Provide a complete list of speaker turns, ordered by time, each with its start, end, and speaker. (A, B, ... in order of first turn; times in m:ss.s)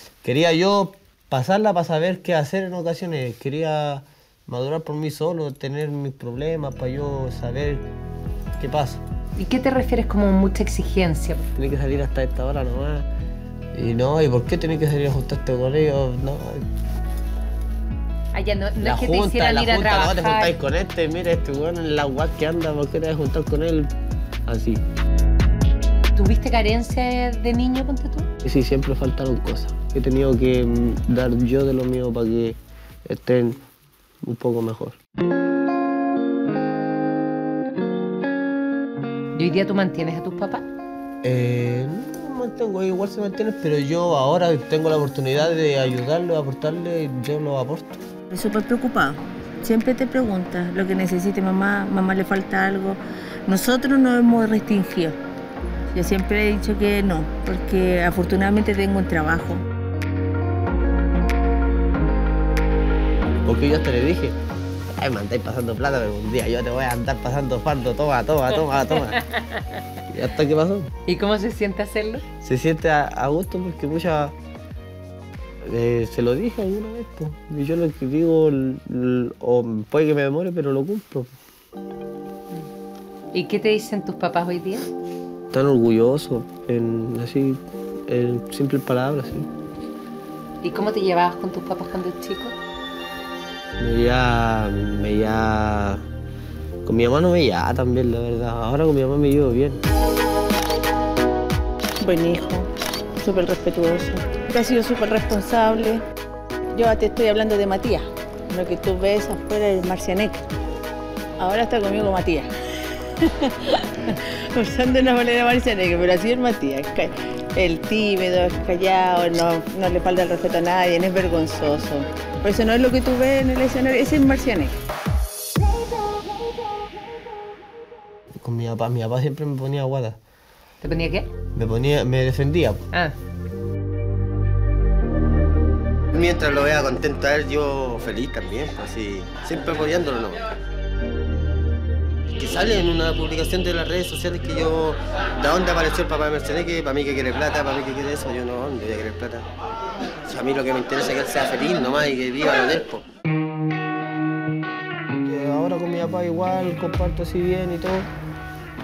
0:00.2-0:07.9 A
0:08.6-0:09.0 A
0:09.4-0:11.4 B
0:11.6-0:13.1 A
0:13.7-0:16.7 A
0:18.3-0:20.6 B
0:18.8-0:23.9 A
0:24.5-0:24.8 A
0:26.2-0:28.3 B
0:28.4-0:33.6 A
0:34.2-0:35.0 A
0:39.4-0:40.6 B
0:41.2-0:48.0 A
0:48.3-0:55.2 C
0:55.9-0:59.6 C
1:03.5-1:04.4 A
1:04.9-1:09.2 A
1:09.1-1:09.8 B
1:10.1-1:10.9 A
1:11.1-1:12.2 B
1:12.4-1:14.3 A
1:15.6-1:21.3 A
1:23.3-1:24.9 B
1:25.5-1:29.5 A
1:30.6-1:32.6 B
1:33.8-1:36.0 A
1:36.8-1:39.8 A
1:42.0-1:46.0 C
1:46.7-1:50.4 C
1:51.4-1:52.5 C
1:53.2-2:04.8 C
2:08.4-2:10.2 A
2:10.8-2:11.3 B
2:11.6-2:12.8 A
2:16.1-2:20.4 D
2:22.4-2:29.5 D
2:30.2-2:33.0 D
2:35.2-2:38.1 A